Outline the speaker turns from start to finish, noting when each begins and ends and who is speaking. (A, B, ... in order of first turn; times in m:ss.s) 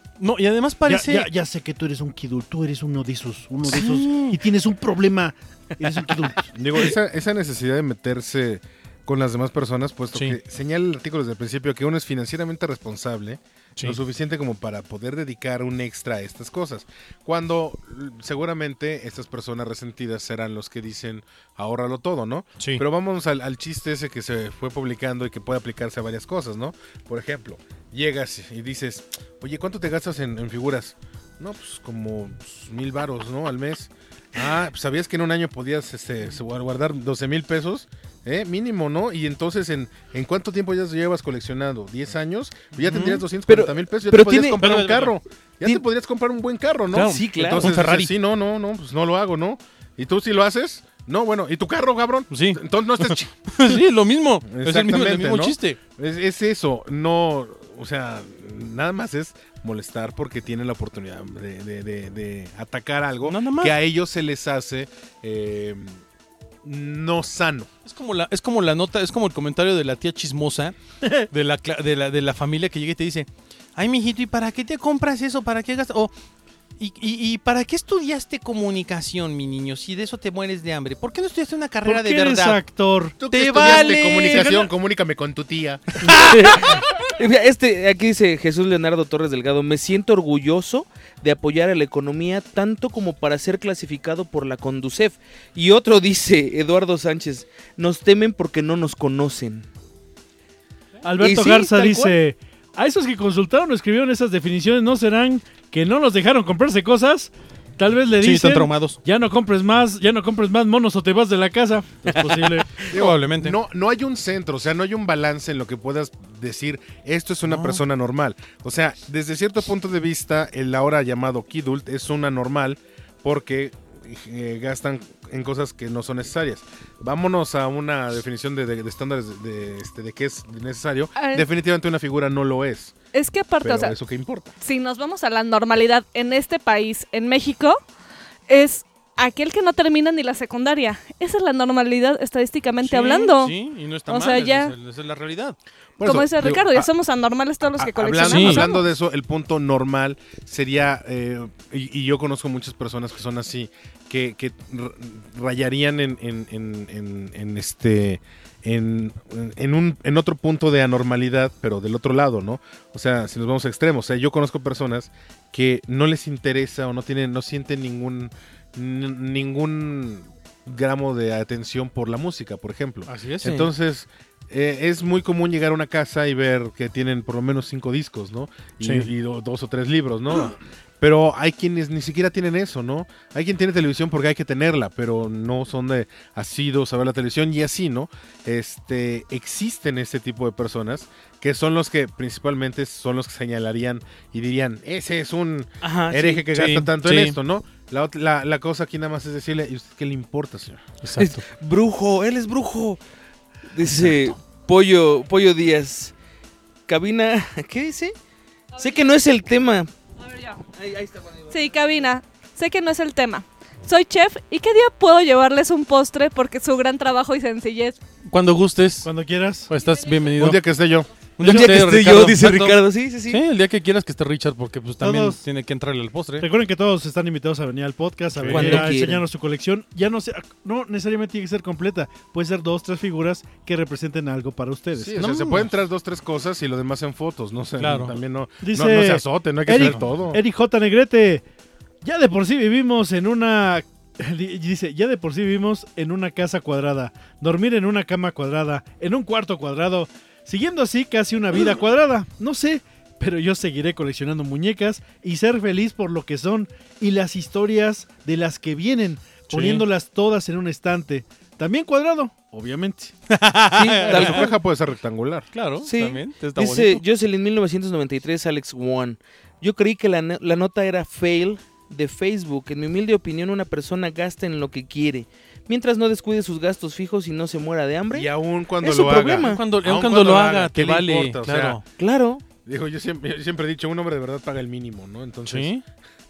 0:00.2-0:01.3 A
0:00.9-0:06.5 B
0:03.6-0:04.4 A
0:06.5-0:53.8 C
0:42.8-0:43.2 A
0:43.5-0:44.6 D
0:44.5-0:45.2 A
0:46.9-0:48.1 A
0:46.9-0:47.7 D
0:52.3-0:55.8 A
0:54.5-1:06.0 C
1:03.2-1:03.7 A
1:06.6-1:07.7 C
1:07.8-1:16.1 A
1:16.8-1:22.6 A
1:21.8-1:24.5 B
1:23.2-1:26.1 C
1:23.3-1:24.7 A
1:26.0-1:39.7 D
1:26.3-1:26.7 A
1:41.0-1:52.8 B
1:41.2-1:42.2 D
1:48.2-1:49.0 A
1:52.2-1:53.6 A
1:52.9-2:12.9 C
1:57.5-1:57.8 A
2:11.2-2:11.4 E
2:13.1-2:13.9 E
2:13.6-2:14.5 C
2:14.6-2:17.8 E
2:18.5-2:23.5 E
2:22.8-2:25.6 A
2:24.1-2:24.7 E
2:26.0-2:26.9 C
2:26.0-2:28.8 E
2:27.8-3:20.9 C
2:28.2-2:28.6 A
2:53.1-2:53.5 A
2:58.8-2:59.1 A
3:15.8-3:16.4 D
3:16.5-3:17.4 A
3:21.0-3:21.4 A
3:21.2-3:23.0 D
3:23.7-3:26.1 D
3:26.9-3:28.1 D
3:28.7-3:29.9 D
3:30.3-3:30.6 E
3:30.7-3:31.5 D
3:31.5-3:38.0 E
3:38.3-3:39.1 A
3:39.0-3:39.7 B
3:39.7-3:40.6 A
3:40.4-3:41.1 C
3:41.4-3:46.5 A
3:41.4-3:43.4 D
3:45.0-3:45.4 B
3:46.4-3:55.3 B
3:48.4-3:48.9 A
3:48.5-3:49.2 D
3:54.9-4:00.4 C
3:55.2-3:55.7 A
3:57.8-3:58.2 A
3:58.6-4:01.4 B
4:02.0-4:23.1 B
4:19.5-4:19.8 A
4:23.3-4:24.4 A
4:23.7-4:24.5 D
4:24.0-4:24.3 B
4:24.1-4:25.5 C
4:25.5-4:27.0 A
4:25.8-4:38.3 D
4:38.1-4:41.8 C
4:38.8-4:39.6 D
4:39.4-4:41.8 A
4:42.0-4:42.4 D
4:42.6-4:45.7 C
4:45.5-4:45.8 A